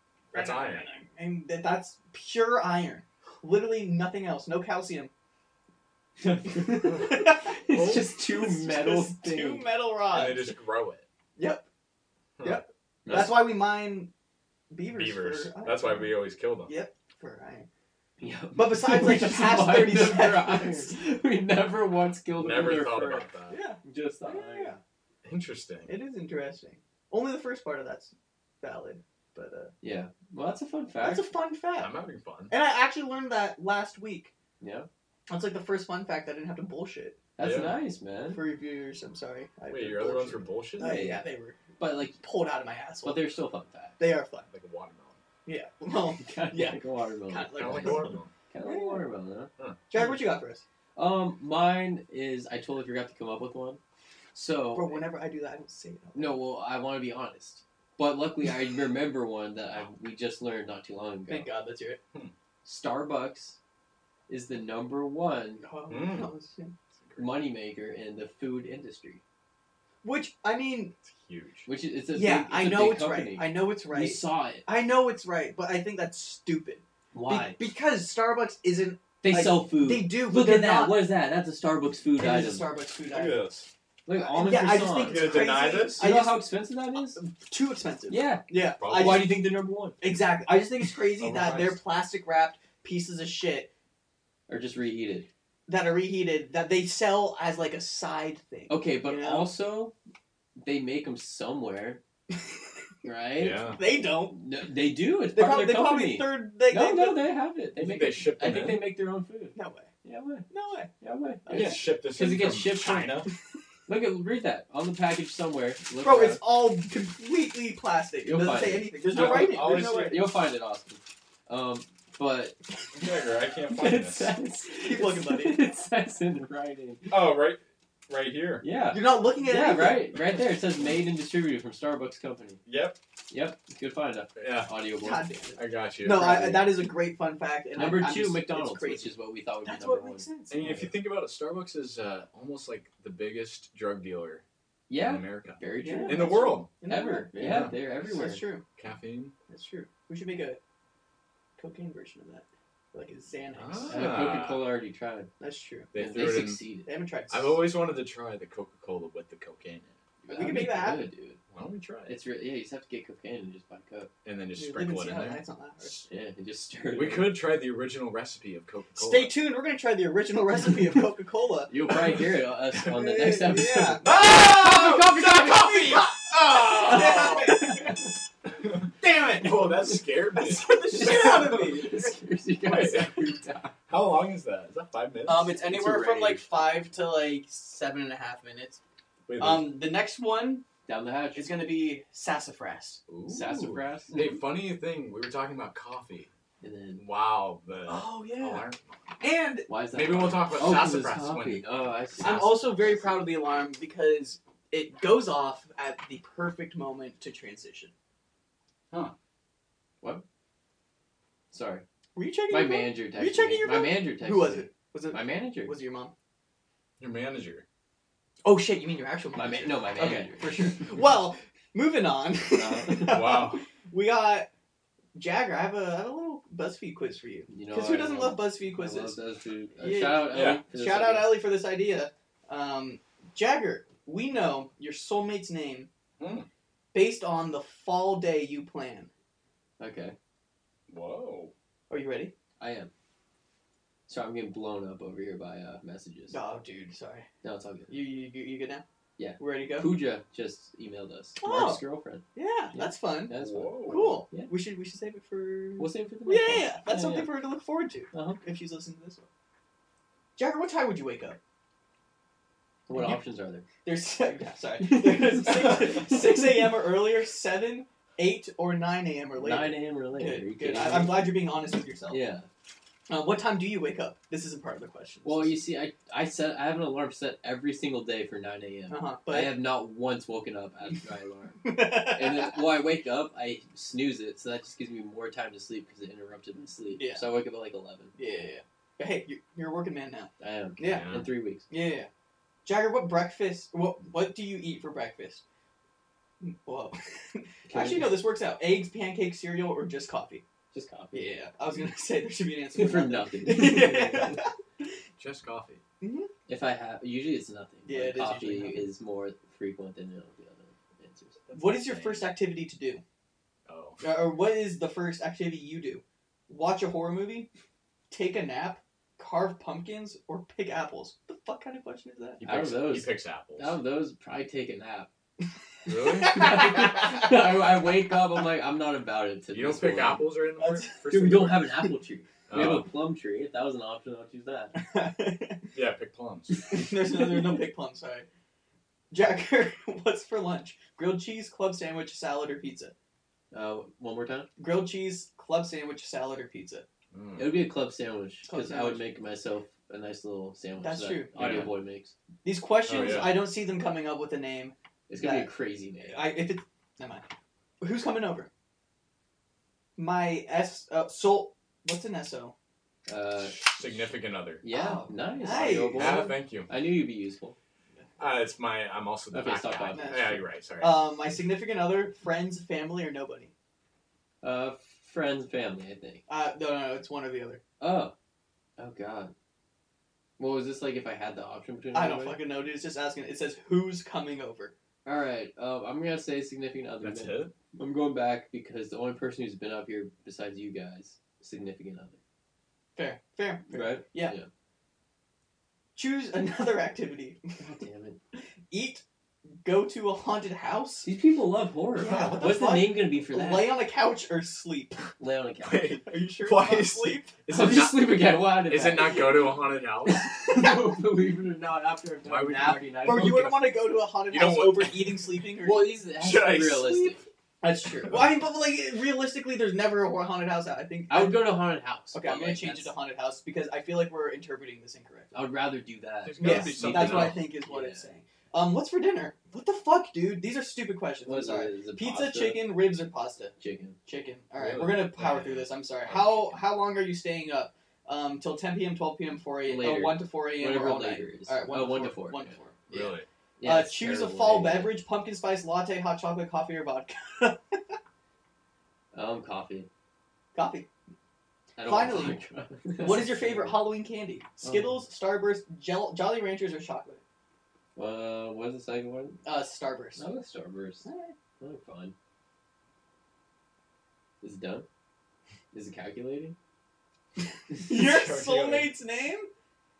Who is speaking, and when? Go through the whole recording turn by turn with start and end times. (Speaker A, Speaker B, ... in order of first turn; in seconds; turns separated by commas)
Speaker A: 0.3-5.1, Speaker B: 0.3-0.9, Speaker C: 6.2-9.7, Speaker A: 6.5-10.5, Speaker B: 10.1-11.1, Speaker A: 11.4-11.7, Speaker B: 12.4-12.6, Speaker A: 12.4-14.1, Speaker C: 13.1-13.4, Speaker A: 14.7-16.1, Speaker B: 14.9-16.7, Speaker A: 16.6-17.7, Speaker C: 18.2-23.3, Speaker A: 18.5-20.9, Speaker B: 22.4-23.6, Speaker A: 23.5-24.8, Speaker C: 23.8-24.7, Speaker B: 25.2-25.9, Speaker A: 25.9-29.7, Speaker C: 29.8-31.3, Speaker A: 31.0-31.9, Speaker B: 31.7-32.5, Speaker A: 32.5-34.3, Speaker C: 34.6-34.9, Speaker A: 35.3-37.2, Speaker C: 37.4-38.4, Speaker B: 37.4-37.8, Speaker A: 38.3-43.2, Speaker B: 39.7-41.0, Speaker C: 40.8-41.2, Speaker C: 41.8-42.1, Speaker C: 43.0-44.0, Speaker A: 44.0-44.5, Speaker B: 44.5-45.2, Speaker A: 45.5-49.0, Speaker C: 46.2-50.2, Speaker B: 47.5-48.3, Speaker A: 49.9-50.6, Speaker C: 51.0-53.8, Speaker C: 54.3-55.0, Speaker A: 54.7-56.4, Speaker C: 56.1-61.5, Speaker A: 61.3-62.0, Speaker C: 62.6-63.6, Speaker C: 64.3-65.7, Speaker A: 65.6-66.7, Speaker B: 65.9-66.3, Speaker B: 67.0-67.3, Speaker C: 67.2-69.2, Speaker A: 70.0-70.9, Speaker B: 71.0-71.7, Speaker C: 71.7-74.7, Speaker A: 72.1-81.1, Speaker C: 77.1-77.6, Speaker C: 79.2-82.7, Speaker A: 82.2-83.4, Speaker B: 83.1-83.7, Speaker C: 84.0-87.2, Speaker A: 84.1-86.5, Speaker B: 85.0-86.1, Speaker A: 87.2-89.4, Speaker C: 88.1-90.0, Speaker B: 88.5-89.4, Speaker A: 90.0-93.7, Speaker C: 91.2-91.8, Speaker C: 94.5-95.3, Speaker A: 95.7-99.5, Speaker C: 98.7-99.9, Speaker C: 100.6-102.0, Speaker C: 103.0-110.5, Speaker B: 103.4-103.8, Speaker A: 103.7-104.4, Speaker A: 105.3-107.3, Speaker B: 107.8-108.9, Speaker A: 109.5-109.9, Speaker A: 110.5-110.9, Speaker C: 111.0-113.3, Speaker A: 111.5-111.8, Speaker B: 111.5-113.3, Speaker C: 113.9-116.4, Speaker A: 116.0-120.3, Speaker C: 118.2-122.6, Speaker B: 119.1-120.3, Speaker B: 122.9-124.3, Speaker C: 123.7-127.2, Speaker A: 124.8-125.6, Speaker B: 127.1-128.6, Speaker C: 128.6-132.6, Speaker A: 128.9-130.2, Speaker B: 132.7-133.0, Speaker C: 133.3-135.2, Speaker B: 134.3-134.7, Speaker A: 135.0-140.7, Speaker B: 135.6-136.6, Speaker C: 136.2-136.7, Speaker C: 137.8-140.9, Speaker B: 140.5-144.4, Speaker C: 144.9-148.5, Speaker B: 145.0-146.7, Speaker A: 145.8-148.7, Speaker B: 147.4-147.7, Speaker B: 148.8-149.3, Speaker A: 149.5-150.6, Speaker A: 151.6-154.2, Speaker B: 153.5-154.7, Speaker C: 153.9-155.3, Speaker A: 155.4-155.9, Speaker B: 155.9-156.6, Speaker C: 155.9-156.9, Speaker A: 156.8-157.6, Speaker B: 157.3-159.9, Speaker C: 160.2-161.4, Speaker A: 160.3-161.1, Speaker B: 161.5-162.1, Speaker C: 162.1-164.1, Speaker B: 164.2-166.0, Speaker A: 164.6-166.0, Speaker C: 166.1-167.3, Speaker B: 166.9-169.3, Speaker A: 168.9-171.7, Speaker C: 171.7-175.8, Speaker A: 172.9-174.2, Speaker B: 174.0-177.8, Speaker A: 175.5-178.0, Speaker C: 176.8-178.0, Speaker B: 178.6-181.7, Speaker A: 179.0-179.8, Speaker A: 180.3-182.1, Speaker C: 180.7-183.7, Speaker B: 182.6-183.2, Speaker B: 183.9-185.6, Speaker A: 185.2-188.8, Speaker C: 185.6-186.5, Speaker B: 189.3-189.7, Speaker A: 189.4-190.7, Speaker C: 190.9-191.5, Speaker A: 191.3-193.0, Speaker B: 193.1-196.3, Speaker C: 193.3-194.3, Speaker C: 196.6-197.0, Speaker B: 197.0-198.8, Speaker A: 197.9-198.7, Speaker A: 199.2-199.7, Speaker C: 199.7-203.1, Speaker B: 199.9-201.7, Speaker B: 202.2-202.5, Speaker A: 202.2-207.9, Speaker C: 211.5-211.8, Speaker A: 212.2-216.1, Speaker C: 212.5-215.7, Speaker B: 217.0-217.6, Speaker A: 218.4-224.5, Speaker C: 219.3-220.8, Speaker C: 222.5-223.2, Speaker B: 223.1-223.6, Speaker A: 225.1-229.2, Speaker C: 227.5-231.4, Speaker A: 229.8-235.9, Speaker B: 230.3-230.6, Speaker B: 236.2-236.5, Speaker A: 236.9-239.1, Speaker C: 239.8-240.2, Speaker B: 240.9-241.5, Speaker A: 241.9-242.3, Speaker C: 242.6-242.9, Speaker C: 244.1-246.4, Speaker A: 246.3-247.3, Speaker C: 247.4-248.0, Speaker A: 247.9-248.8, Speaker C: 249.2-254.5, Speaker A: 249.4-249.9, Speaker A: 251.4-251.8, Speaker A: 252.3-259.3, Speaker B: 253.3-254.2, Speaker C: 255.8-257.3, Speaker C: 258.1-258.4, Speaker A: 260.4-261.4, Speaker C: 262.9-263.7, Speaker A: 263.8-272.2, Speaker C: 264.8-266.6, Speaker C: 269.4-271.3, Speaker C: 272.1-272.5, Speaker A: 273.1-275.6, Speaker C: 275.2-288.1, Speaker A: 278.9-279.6, Speaker A: 281.6-282.6, Speaker A: 286.9-287.3, Speaker A: 288.2-291.1, Speaker C: 290.4-291.7, Speaker B: 290.8-291.3, Speaker A: 291.7-292.1, Speaker A: 292.6-295.4, Speaker A: 296.4-300.4, Speaker C: 297.7-298.2, Speaker C: 300.7-301.4, Speaker A: 301.1-304.5, Speaker C: 302.7-304.4, Speaker B: 305.2-305.8, Speaker A: 306.0-306.3, Speaker C: 306.5-311.4, Speaker A: 307.9-308.8, Speaker B: 311.5-312.3, Speaker A: 311.5-313.0, Speaker B: 313.7-314.0, Speaker A: 314.0-317.5, Speaker A: 318.1-322.4, Speaker B: 322.4-323.8, Speaker C: 322.4-325.1, Speaker B: 325.9-326.4, Speaker A: 326.2-327.2, Speaker C: 326.2-330.3, Speaker B: 329.5-331.8, Speaker A: 330.6-330.9, Speaker C: 331.1-334.7, Speaker B: 332.5-332.9, Speaker A: 334.7-335.6, Speaker B: 335.7-336.7, Speaker A: 336.7-338.2, Speaker A: 339.1-342.9, Speaker C: 343.5-344.5, Speaker A: 344.6-346.9, Speaker B: 347.1-347.6, Speaker C: 347.4-352.1, Speaker A: 348.5-349.1, Speaker A: 350.8-351.7, Speaker B: 351.4-351.7, Speaker A: 352.4-355.5, Speaker B: 352.9-353.4, Speaker C: 355.1-356.3, Speaker A: 356.1-357.2, Speaker A: 357.8-358.5, Speaker A: 360.0-362.5, Speaker C: 363.1-363.6, Speaker B: 363.4-364.6, Speaker C: 364.6-367.6, Speaker A: 364.7-366.3, Speaker B: 365.5-366.7, Speaker B: 368.2-371.0, Speaker C: 369.3-370.4, Speaker A: 369.9-373.5, Speaker C: 374.4-376.2, Speaker A: 376.3-377.6, Speaker C: 377.8-378.1, Speaker C: 378.8-379.3, Speaker C: 380.4-382.4, Speaker A: 381.9-384.7, Speaker C: 385.0-392.2, Speaker B: 387.0-387.5, Speaker A: 392.9-394.3, Speaker C: 393.7-394.5, Speaker A: 395.9-397.6, Speaker C: 397.6-398.2, Speaker A: 398.7-399.0, Speaker A: 399.6-401.1, Speaker C: 401.0-403.7, Speaker A: 401.9-405.1, Speaker C: 405.2-406.0, Speaker B: 405.6-410.3, Speaker A: 406.0-407.4, Speaker C: 407.5-409.5, Speaker C: 410.1-413.5, Speaker B: 412.2-413.7, Speaker A: 412.6-416.0, Speaker B: 414.3-415.2, Speaker C: 415.6-417.2, Speaker B: 416.2-417.2, Speaker A: 417.6-421.5, Speaker C: 421.1-422.9, Speaker A: 422.1-425.3, Speaker C: 425.3-428.1, Speaker B: 426.2-427.4, Speaker A: 426.4-433.5, Speaker C: 431.2-432.8, Speaker C: 433.6-434.0, Speaker A: 434.1-447.8, Speaker B: 434.6-436.6, Speaker C: 439.6-442.5, Speaker B: 442.9-443.3, Speaker C: 443.6-444.9, Speaker C: 449.1-449.9, Speaker A: 450.5-450.9, Speaker C: 451.8-453.8, Speaker A: 451.8-452.4, Speaker A: 453.0-457.2, Speaker C: 454.6-455.0, Speaker C: 457.9-459.4, Speaker A: 459.4-460.2, Speaker C: 460.1-461.1, Speaker A: 461.0-461.3, Speaker C: 461.6-462.1, Speaker C: 464.4-464.9, Speaker C: 465.7-466.6, Speaker A: 467.7-469.5, Speaker B: 467.9-468.9